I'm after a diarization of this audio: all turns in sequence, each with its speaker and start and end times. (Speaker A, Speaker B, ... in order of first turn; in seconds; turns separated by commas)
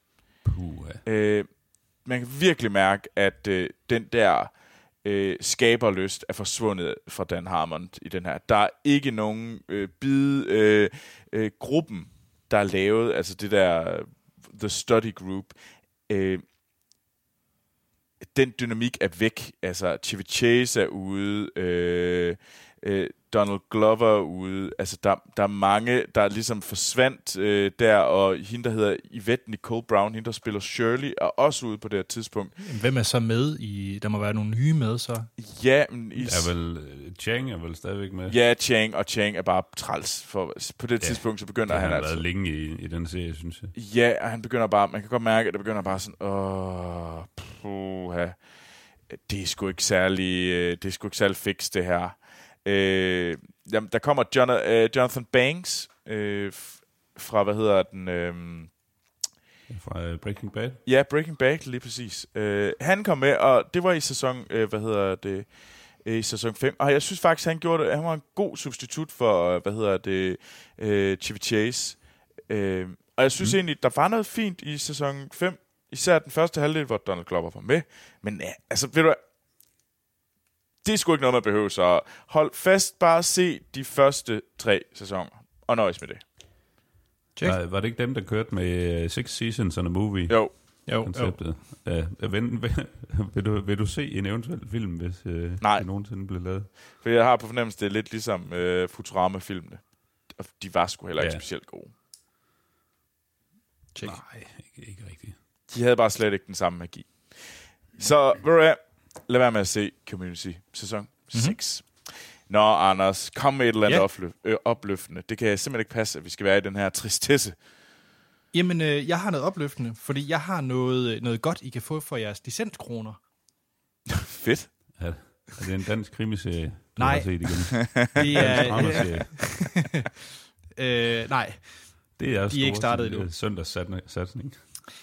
Speaker A: 0.4-1.0, Speaker B: 1.0-16.4, Speaker B: 18.3-32.6, Speaker C: 32.6-35.3, Speaker B: 35.4-36.5, Speaker A: 36.2-38.4, Speaker B: 38.3-42.2, Speaker A: 41.0-43.7, Speaker B: 43.7-48.4, Speaker B: 49.1-58.8, Speaker A: 59.7-60.8, Speaker B: 60.8-79.2, Speaker B: 80.8-86.2, Speaker A: 87.4-96.7, Speaker B: 90.3-90.5, Speaker C: 90.8-91.4, Speaker B: 95.6-95.9, Speaker B: 96.5-101.9, Speaker A: 101.2-101.4, Speaker C: 103.9-104.2, Speaker A: 104.0-105.4, Speaker B: 105.7-117.5, Speaker C: 111.3-111.6, Speaker C: 118.5-123.2, Speaker B: 124.2-125.0, Speaker A: 125.0-129.8, Speaker C: 127.0-129.8, Speaker B: 128.0-128.9, Speaker C: 130.8-133.3, Speaker A: 132.2-134.8